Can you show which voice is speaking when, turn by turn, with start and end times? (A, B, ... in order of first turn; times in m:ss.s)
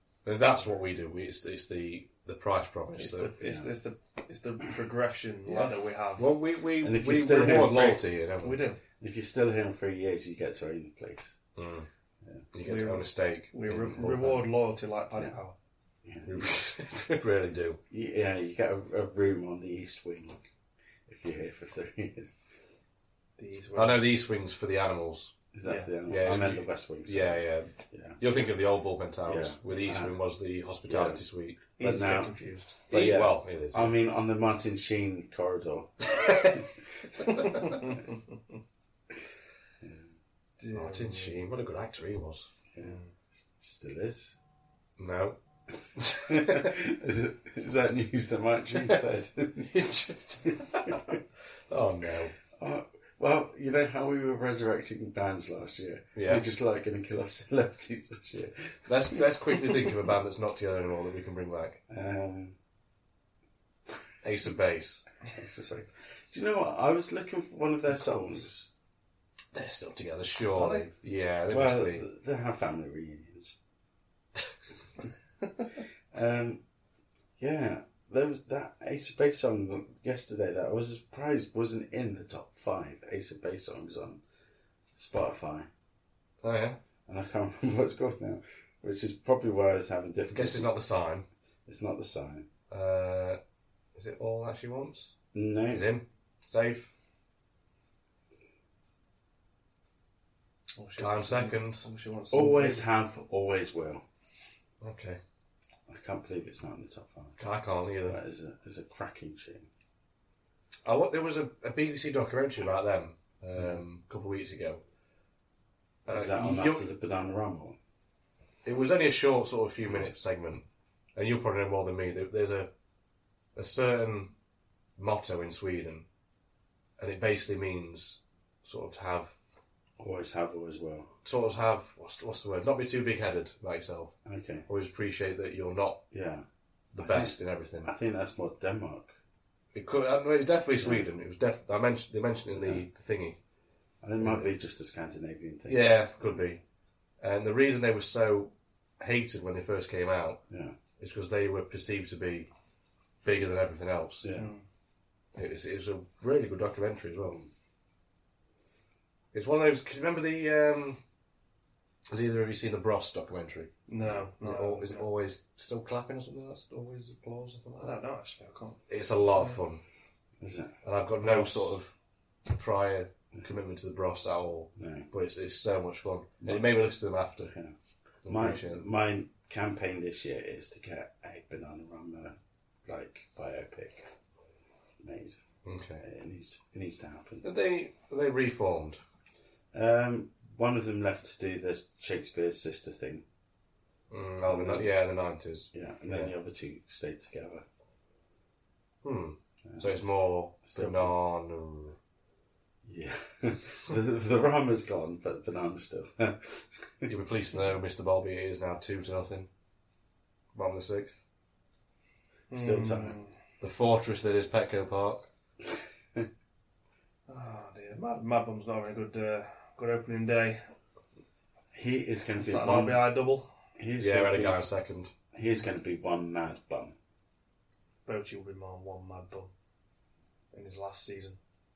0:00.2-0:03.3 A
0:02.9-0:06.3 B
0:03.4-0:03.7 C
0:05.5-0:08.6 A
0:06.8-0:08.0 C
0:08.4-0:08.8 B
0:09.0-0:11.4 C
0:11.6-0:11.9 A
0:12.5-0:14.4 A
0:12.6-0:15.5 B
0:16.0-0:16.6 C
0:16.2-0:17.8 A
0:17.9-0:20.4 C
0:21.1-0:22.3 C
0:23.4-0:24.1 B
0:23.7-0:25.4 A
0:25.5-0:28.2 C
0:25.6-0:25.9 B
0:26.1-0:31.6 A
0:29.2-0:30.2 C
0:30.9-0:31.2 C
0:31.8-0:32.8 B
0:31.8-0:32.3 C
0:32.9-0:36.6 C
0:32.9-0:34.0 A
0:37.6-0:38.0 B
0:39.8-0:40.1 C
0:40.6-0:41.4 B
0:40.7-0:42.5 A
0:42.7-0:44.3 C
0:42.8-0:43.1 B
0:45.0-0:45.4 A
0:46.0-0:46.8 A
0:46.1-0:49.7 C
0:49.6-0:52.3 A
0:50.9-0:51.2 C
0:52.5-0:59.8 C
0:56.1-0:56.4 A
0:58.9-1:01.8 A
1:01.9-1:02.6 C
1:04.2-1:05.0 A
1:05.3-1:08.7 C
1:09.5-1:12.0 A
1:10.5-1:10.9 B
1:11.5-1:13.6 C
1:16.1-1:16.6 C
1:17.4-1:24.2 C
1:24.9-1:25.7 C
1:26.4-1:26.8 A
1:27.1-1:30.7 C
1:30.3-1:31.2 A
1:31.6-1:32.5 C
1:32.7-1:33.4 A
1:33.9-1:35.1 A
1:35.3-1:35.9 C
1:35.7-1:36.9 A
1:40.8-1:42.8 B
1:41.0-1:41.8 A
1:42.3-1:44.0 C
1:44.8-1:45.2 A
1:45.9-1:47.4 C
1:47.4-1:48.2 A
1:48.0-1:49.7 C
1:50.8-1:54.8 A
1:56.0-1:56.8 A
1:56.1-1:57.8 C
1:58.6-2:00.6 A
2:01.1-2:02.7 A
2:03.6-2:04.3 A
2:05.0-2:06.0 A
2:07.0-2:09.3 A
2:10.0-2:11.1 C
2:11.2-2:14.1 A
2:14.2-2:14.6 C
2:14.7-2:16.0 A
2:16.1-2:16.4 C
2:16.9-2:17.9 A
2:17.0-2:19.1 C
2:19.7-2:23.4 A
2:20.8-2:21.0 C
2:22.5-2:22.8 C
2:24.0-2:26.4 C
2:24.2-2:24.5 A
2:25.7-2:26.6 A
2:27.2-2:30.4 A
2:30.5-2:30.8 C
2:31.0-2:32.5 A
2:33.2-2:34.3 A
2:34.2-2:34.5 C
2:34.3-2:34.6 B
2:35.3-2:37.4 A
2:39.3-2:41.0 A
2:42.1-2:43.7 A
2:43.9-2:45.1 B
2:44.4-2:47.4 A
2:47.4-2:49.6 B
2:48.9-2:49.8 A
2:50.4-2:50.7 C
2:50.8-2:51.9 A
2:51.2-2:51.7 B
2:52.4-2:57.5 A
2:54.8-2:55.1 C
2:58.2-2:58.8 A
2:58.2-3:04.1 C
3:05.0-3:05.4 C
3:05.6-3:06.0 A
3:06.0-3:07.4 C
3:07.4-3:09.0 A
3:09.7-3:13.2 C
3:14.1-3:16.3 A
3:14.4-3:14.9 C
3:15.7-3:17.6 C
3:19.0-3:22.0 A
3:19.6-3:21.1 C
3:22.8-3:27.1 C
3:27.0-3:29.5 A
3:30.5-3:31.2 A
3:32.5-3:33.3 B
3:32.5-3:33.2 C
3:33.6-3:35.2 A
3:37.3-3:40.6 B
3:41.7-3:43.1 C
3:42.4-3:43.5 B
3:43.8-3:44.6 C
3:44.0-3:45.1 A
3:45.3-3:46.9 C
3:48.0-3:49.5 B
3:50.5-3:51.4 B